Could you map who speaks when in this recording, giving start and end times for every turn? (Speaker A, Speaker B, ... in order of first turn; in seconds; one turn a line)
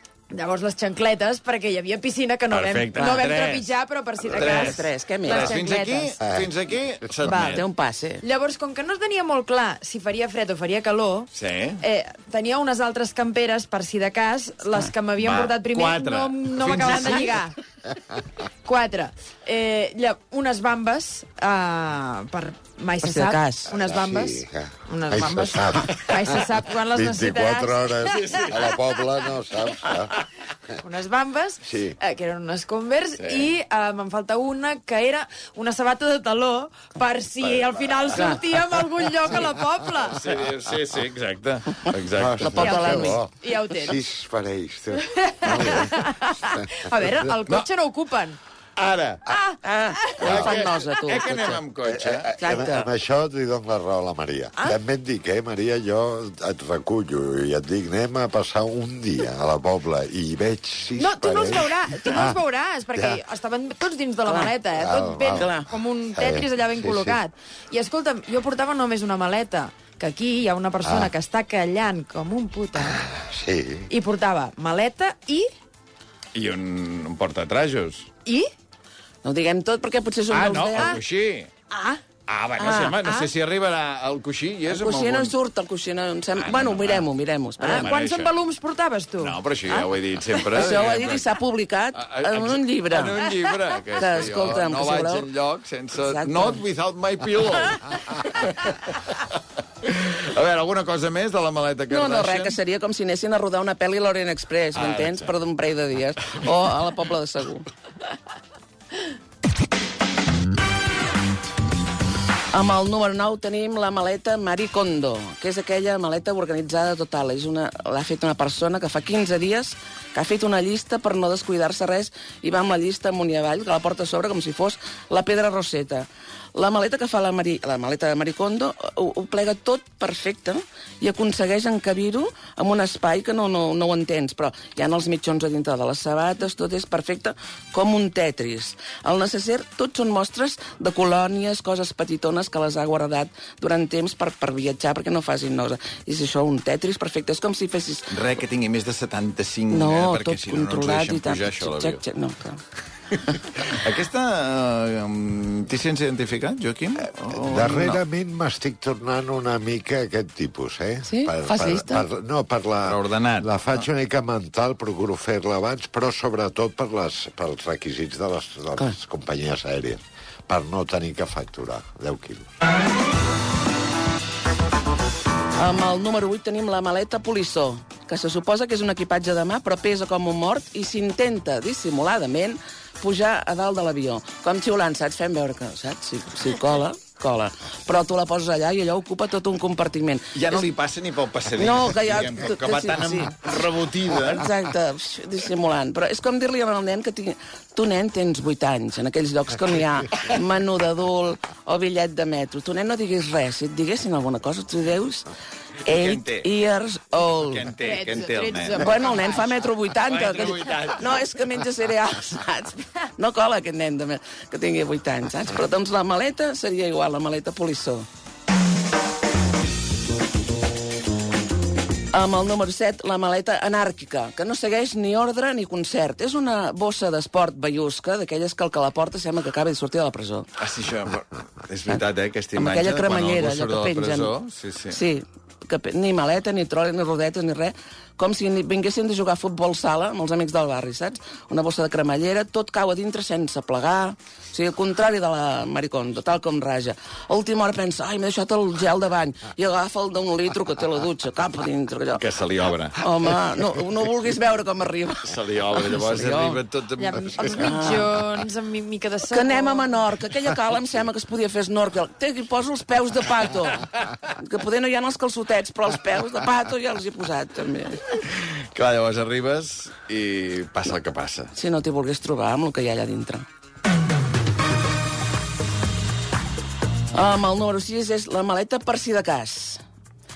Speaker A: 0.3-6.2
Speaker B: 2.5-3.7
Speaker C: 2.9-3.5
Speaker C: 4.2-5.5
Speaker B: 4.3-7.7
Speaker D: 6.2-6.5
Speaker A: 7.2-7.6
Speaker C: 7.5-8.2
Speaker A: 8.2-17.6
Speaker B: 11.3-11.8
Speaker B: 15.2-17.4
Speaker A: 18.6-28.7
Speaker C: 23.0-23.7
Speaker D: 23.7-30.1
Speaker B: 28.2-28.7
Speaker A: 30.8-40.2
Speaker D: 31.6-32.0
Speaker B: 33.2-33.5
Speaker C: 38.1-38.4
Speaker B: 39.9-42.8
Speaker D: 42.1-47.3
Speaker C: 42.4-43.2
Speaker A: 42.6-44.0
Speaker A: 44.9-48.4
Speaker B: 48.8-49.3
Speaker A: 49.3-50.2
Speaker C: 49.6-51.6
Speaker B: 50.2-52.3
Speaker D: 50.2-50.6
Speaker D: 51.9-62.4
Speaker C: 52.4-52.9
Speaker A: 61.0-73.0
Speaker D: 62.9-63.2
Speaker C: 64.2-64.5
Speaker D: 64.7-65.6
Speaker C: 65.3-65.7
Speaker D: 66.1-67.2
Speaker D: 70.8-71.1
Speaker D: 72.8-73.9
Speaker A: 73.9-75.5
Speaker B: 76.3-78.1
Speaker C: 79.2-80.9
Speaker B: 80.3-81.5
Speaker A: 80.7-81.0
Speaker A: 81.7-82.0
Speaker B: 82.3-85.3
Speaker C: 82.6-83.0
Speaker A: 82.7-83.3
Speaker C: 84.7-87.9
Speaker B: 86.3-87.1
Speaker A: 87.6-90.7
Speaker B: 87.6-88.3
Speaker B: 89.2-91.3
Speaker C: 90.5-93.2
Speaker B: 91.9-99.2
Speaker C: 94.0-95.3
Speaker C: 96.0-96.6
Speaker B: 99.8-102.6
Speaker C: 101.9-107.7
Speaker B: 104.7-105.3
Speaker C: 112.5-148.1
Speaker B: 148.1-152.0
Speaker C: 149.7-152.6
Speaker B: 153.6-158.0
Speaker D: 157.2-172.5
Speaker C: 161.1-162.1
Speaker B: 162.8-163.8
Speaker C: 175.6-190.7
Speaker B: 190.3-194.5
Speaker C: 191.6-205.3
Speaker B: 205.8-206.5
Speaker C: 205.8-207.7
Speaker B: 207.2-208.9
Speaker A: 207.8-209.5
Speaker C: 208.8-218.1
Speaker B: 209.9-211.3
Speaker C: 222.1-230.5
Speaker B: 230.6-235.0
Speaker C: 232.5-234.3
Speaker C: 234.9-252.2
Speaker B: 252.1-253.0
Speaker C: 253.0-256.6
Speaker B: 255.2-257.7
Speaker A: 257.0-260.0
Speaker C: 257.5-258.1
Speaker C: 259.3-263.9
Speaker C: 264.4-268.0
Speaker B: 268.1-271.5
Speaker C: 271.6-273.4
Speaker C: 277.1-279.8